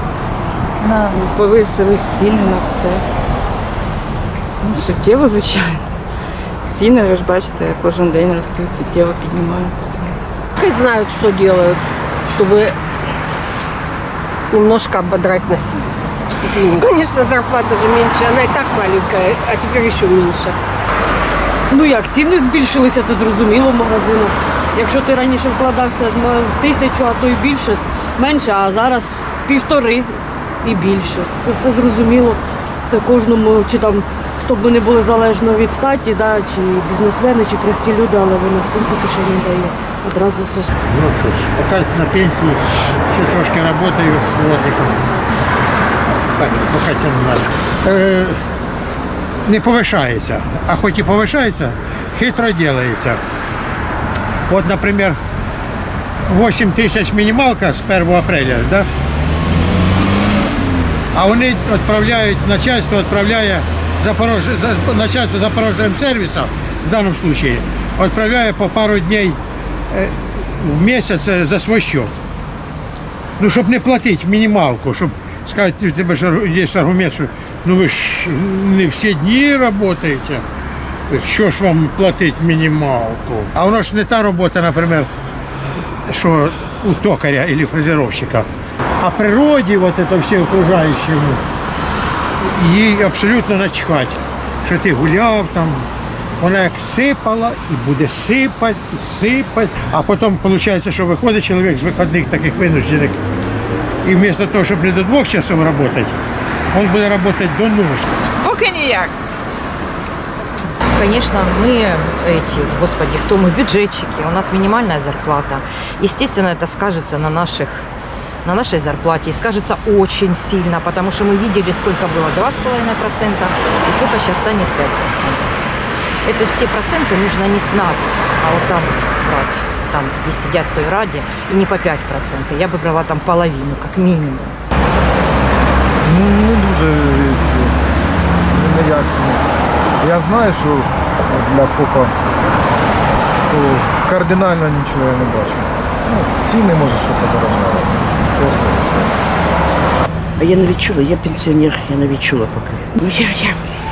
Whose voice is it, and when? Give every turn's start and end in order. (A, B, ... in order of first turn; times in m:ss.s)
0:00.8-0:03.0 A
0:04.6-0:05.8 A
0:06.7-0:10.2 A
0:10.6-0:12.7 B
0:14.5-0:15.8 B
0:16.4-0:20.6 B
0:21.7-0:30.1 C
0:30.6-0:40.7 C
0:40.9-0:45.0 D
0:46.4-0:48.4 D
0:49.4-0:53.2 D
0:54.5-0:55.2 D
0:56.2-0:58.9 D
1:01.1-1:09.4 D
1:09.9-1:12.1 D
1:13.4-1:20.4 D
1:21.1-1:25.1 D
1:26.1-1:28.5 D
1:29.0-1:31.4 D
1:32.4-1:35.8 D
1:36.4-1:43.2 D
1:44.0-1:46.1 D
1:46.7-1:48.0 D
1:48.4-1:49.1 E
1:50.9-1:57.9 E
1:58.4-2:05.6 E
2:06.2-2:14.6 E
2:16.0-2:17.8 F
2:18.5-2:19.4 F
2:20.0-2:22.1 F
2:23.5-2:29.2 F
2:30.4-2:33.6 G